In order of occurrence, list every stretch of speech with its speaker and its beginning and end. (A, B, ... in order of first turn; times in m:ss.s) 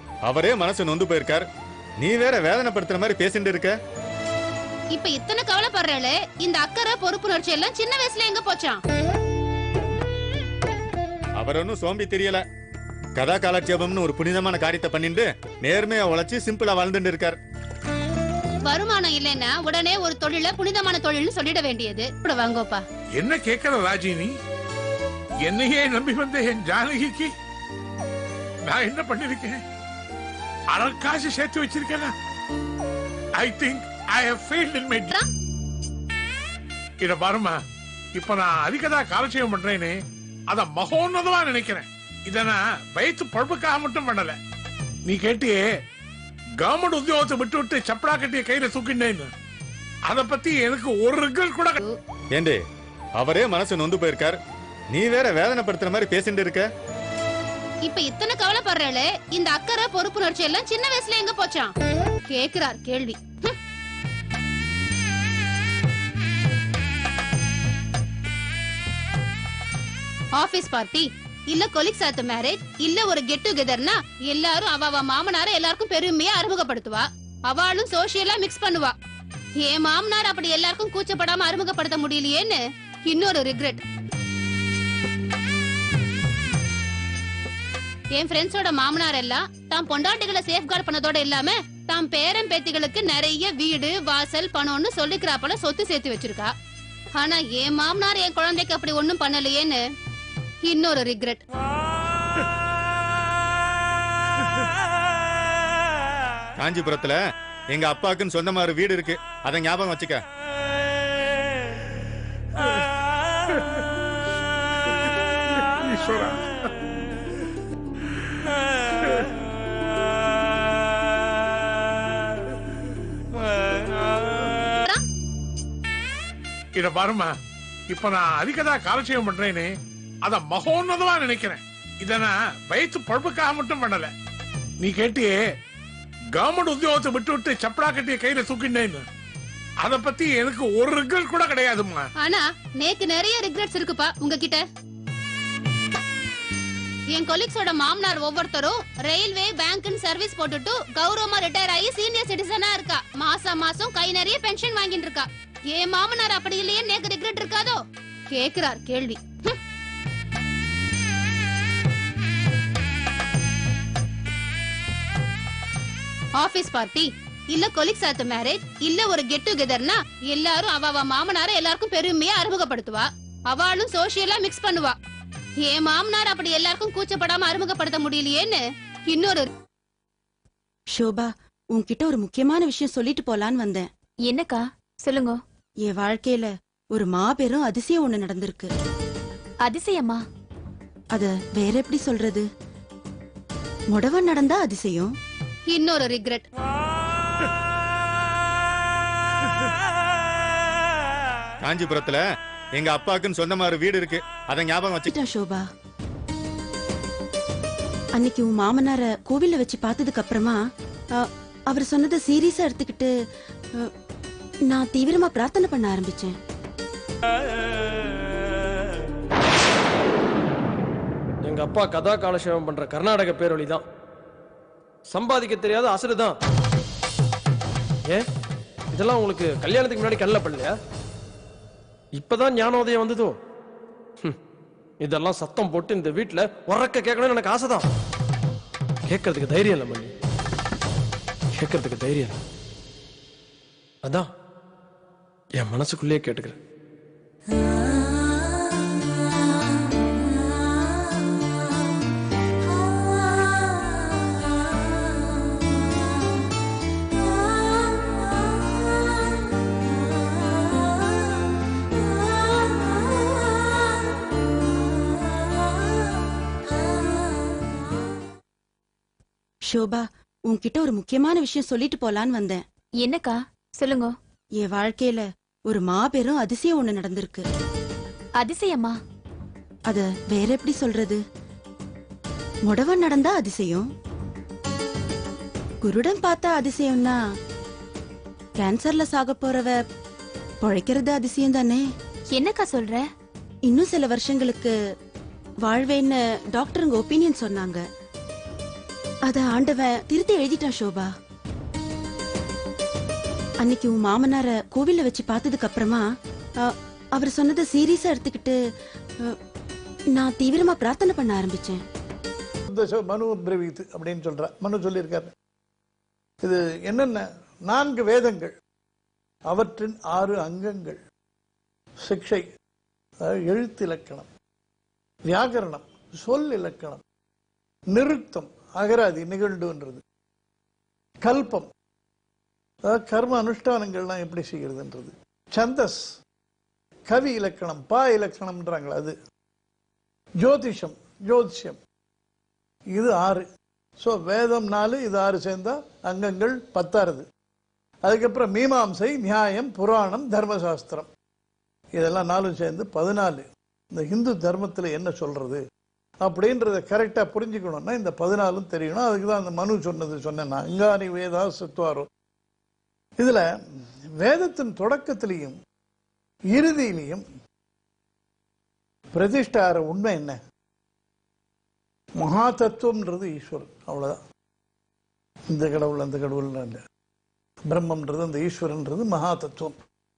0:00.2-0:01.4 A
0:02.0-0:03.8 A
0:04.9-0:08.8 B
0:11.4-0:12.4 A
0:13.2-0:17.4 A
0:18.6-0:22.8 B
0:23.2-0:24.3 C
0:25.4-0:27.3 C
0:28.6-0:29.6 C
0:30.7-0:32.1 C
0:33.4-0:35.2 C
0:37.0-0:37.6 C
0:38.2-0:39.9 C
0:40.5-0:44.3 C
0:45.1-0:45.7 C
0:46.6-0:49.3 C
0:50.1-0:51.8 C
0:52.3-0:52.6 A
0:53.2-0:54.4 A
0:54.9-0:56.7 A
0:57.8-1:01.7 B
1:02.3-1:03.6 B
1:10.4-1:18.9 B
1:19.6-1:23.8 B
1:28.1-1:36.5 B
1:37.2-1:39.8 B
1:40.6-1:41.4 B
1:46.6-1:47.2 A
1:47.7-1:50.2 A
1:55.8-1:56.4 C
2:06.8-2:07.3 C
2:07.9-2:09.7 C
2:10.2-2:14.1 C
2:14.8-2:15.4 C
2:16.4-2:19.0 C
2:19.8-2:22.0 C
2:22.2-2:24.6 B
2:27.1-2:37.8 B
2:38.3-2:39.6 B
2:46.4-2:55.0 B
2:55.6-2:59.5 B
3:00.9-3:03.9 D
3:04.3-3:05.3 E
3:05.8-3:08.7 D
3:09.6-3:10.2 E
3:11.1-3:12.5 D
3:13.9-3:15.1 D
3:15.7-3:16.4 B
3:21.6-3:22.2 A
3:22.7-3:25.1 A
3:25.1-3:25.7 D
3:28.2-3:30.6 D
3:31.1-3:33.1 D
3:34.7-3:36.4 D
3:41.4-3:43.8 F
3:45.1-3:46.3 F
3:48.9-3:50.8 F
3:52.2-3:53.3 F
3:55.0-3:57.8 F
3:59.1-4:00.1 F
4:01.6-4:02.3 F
4:05.6-4:06.6 F
4:29.7-4:32.6 D
4:33.0-4:34.1 E
4:34.6-4:37.4 D
4:38.4-4:38.9 E
4:39.9-4:41.2 D
4:42.7-4:43.9 D
4:45.8-4:47.2 D
4:48.6-4:49.8 D
4:50.6-4:51.8 D
4:52.4-4:53.0 E
4:53.7-4:54.7 D
4:55.6-4:57.8 D
4:59.2-5:01.1 D
5:03.6-5:06.1 D
5:06.6-5:08.6 D
5:10.1-5:11.8 D
5:12.7-5:15.3 G
5:16.4-5:18.5 G
5:19.5-5:21.0 G
5:22.0-5:22.5 G
5:23.2-5:24.3 G
5:25.3-5:27.0 G
5:27.9-5:30.0 G
5:31.2-5:31.7 G
5:32.8-5:36.1 G
5:37.1-5:39.2 G
5:40.4-5:41.8 G
5:42.9-5:43.4 G
5:44.0-5:47.2 G
5:48.0-5:51.1 G
5:51.9-5:55.6 G
5:56.2-6:02.1 G
6:03.2-6:03.5 G
6:04.2-6:05.6 G
6:06.5-6:07.2 G
6:09.1-6:10.4 G
6:12.2-6:14.2 G
6:15.5-6:16.8 G
6:17.7-6:19.8 G